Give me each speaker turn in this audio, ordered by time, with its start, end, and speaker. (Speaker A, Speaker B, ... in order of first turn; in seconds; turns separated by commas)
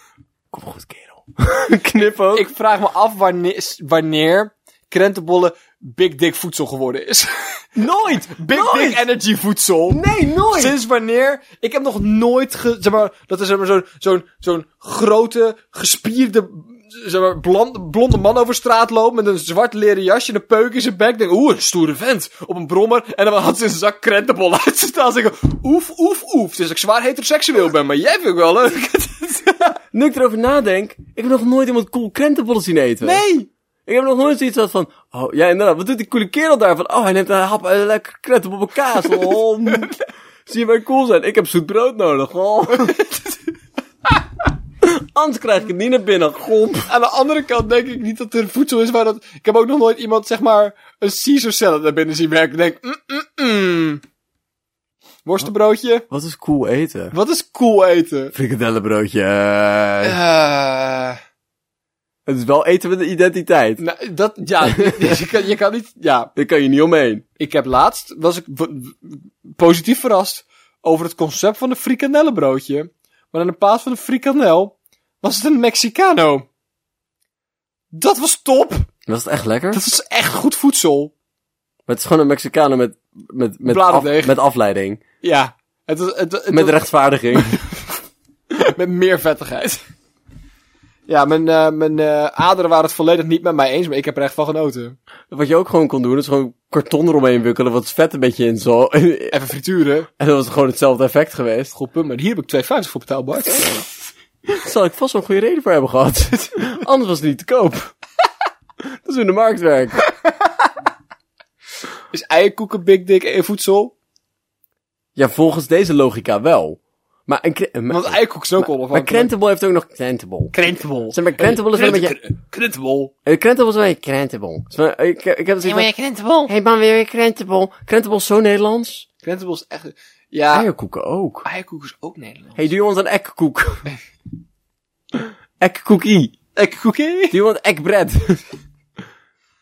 Speaker A: 0.5-2.5, Speaker B: 2.3-7.6, Speaker A: 7.8-9.1, Speaker B: 8.3-10.0, Speaker A: 9.9-10.8, Speaker B: 10.5-29.8, Speaker A: 29.9-33.2, Speaker B: 33.0-33.5, Speaker A: 33.9-39.9, Speaker A: 40.5-43.0, Speaker B: 42.8-43.3, Speaker A: 44.8-46.9, Speaker B: 46.9-54.0, Speaker B: 55.2-56.0, Speaker A: 56.1-57.1, Speaker B: 57.1-58.3, Speaker A: 58.3-60.2, Speaker B: 60.0-61.2, Speaker A: 62.2-63.8, Speaker B: 63.8-66.3, Speaker A: 64.7-65.1, Speaker A: 66.3-67.2, Speaker B: 67.4-76.5, Speaker B: 77.9-78.9, Speaker A: 79.0-79.8, Speaker B: 79.7-81.1, Speaker A: 81.9-85.0, Speaker B: 83.7-84.3, Speaker B: 85.2-86.8, Speaker A: 86.5-87.6, Speaker B: 87.3-87.8, Speaker B: 88.5-89.8, Speaker B: 91.1-95.0, Speaker A: 95.3-99.3, Speaker B: 99.3-100.1, Speaker A: 100.2-101.7, Speaker B: 101.7-103.8, Speaker A: 104.5-107.9, Speaker A: 108.8-110.0, Speaker B: 112.1-113.9, Speaker A: 115.2-120.5, Speaker B: 117.9-119.3, Speaker B: 120.5-123.1, Speaker A: 121.1-122.2, Speaker A: 123.2-125.9, Speaker B: 125.6-126.5, Speaker A: 126.5-129.1, Speaker B: 129.2-130.7, Speaker A: 130.5-131.4, Speaker B: 131.4-132.6, Speaker A: 132.6-133.9, Speaker A: 135.6-136.3, Speaker B: 136.5-137.3, Speaker A: 137.3-138.4